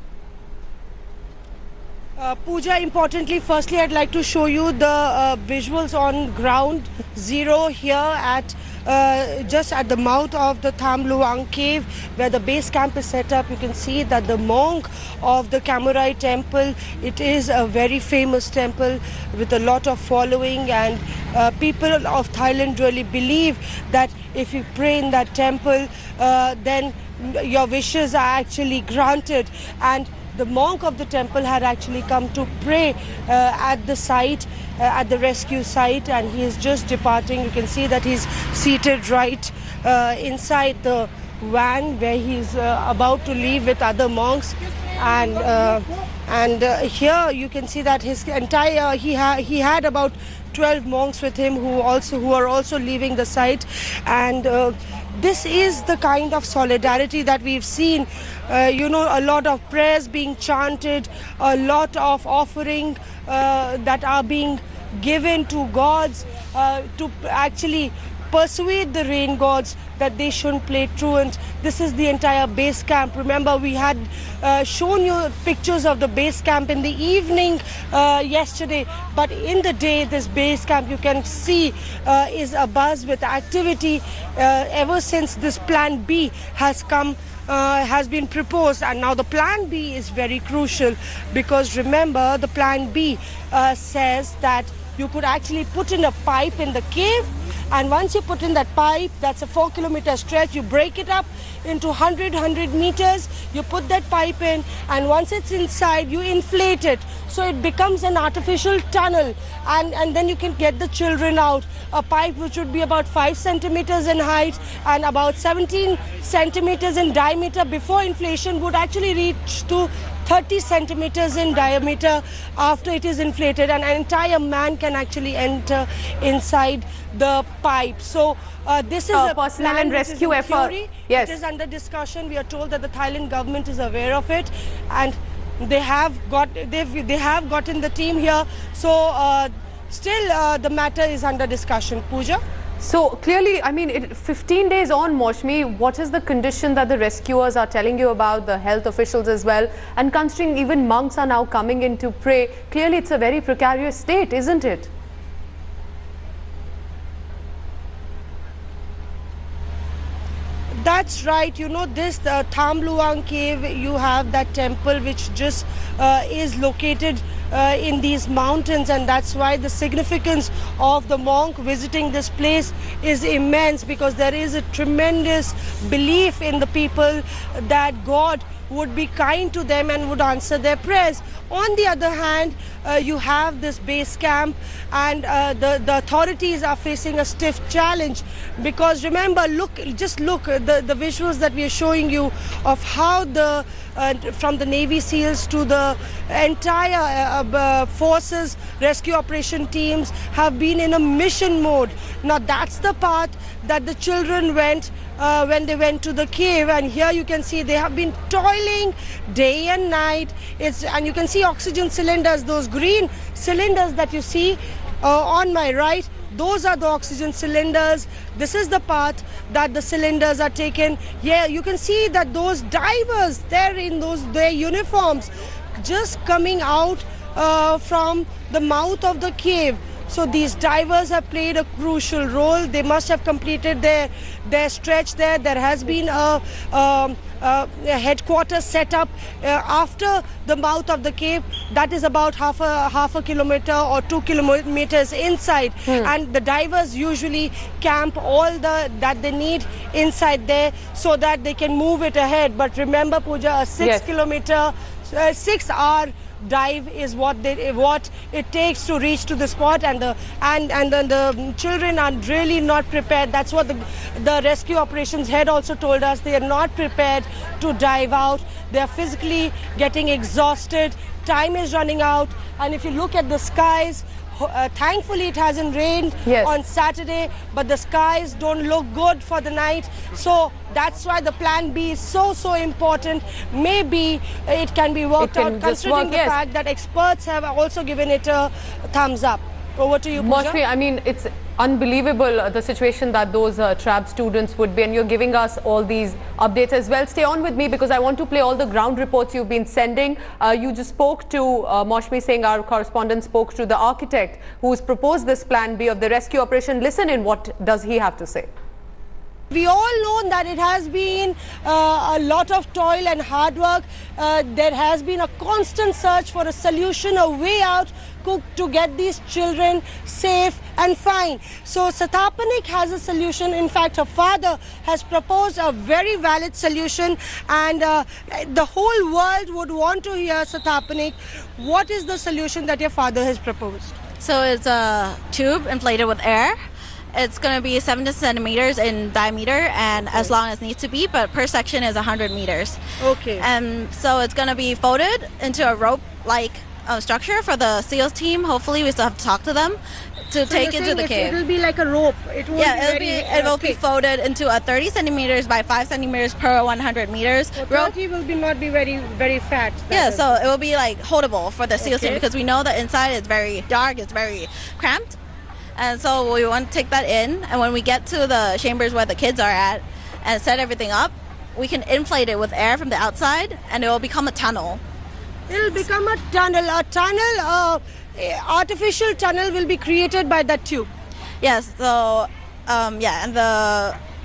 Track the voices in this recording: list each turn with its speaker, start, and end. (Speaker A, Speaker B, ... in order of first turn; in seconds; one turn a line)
Speaker A: 2.2-142.4
Speaker B: 129.1-131.4
Speaker B: 142.8-154.9
Speaker A: 160.7-290.6
Speaker B: 245.9-246.1
Speaker B: 253.8-254.1
Speaker B: 276.2-276.6
Speaker B: 285.2-286.4
Speaker B: 290.2-308.5
Speaker A: 309.5-334.0
Speaker C: 334.2-336.6
Speaker C: 337.1-342.8
Speaker A: 340.0-340.4
Speaker A: 343.0-343.5
Speaker C: 343.4-349.8
Speaker C: 350.3-351.4
Speaker A: 350.4-353.8
Speaker C: 352.5-357.9
Speaker A: 357.5-360.5
Speaker C: 359.9-365.1
Speaker A: 361.8-362.2
Speaker C: 365.8-374.8
Speaker A: 375.5-380.9
Speaker C: 381.4-384.0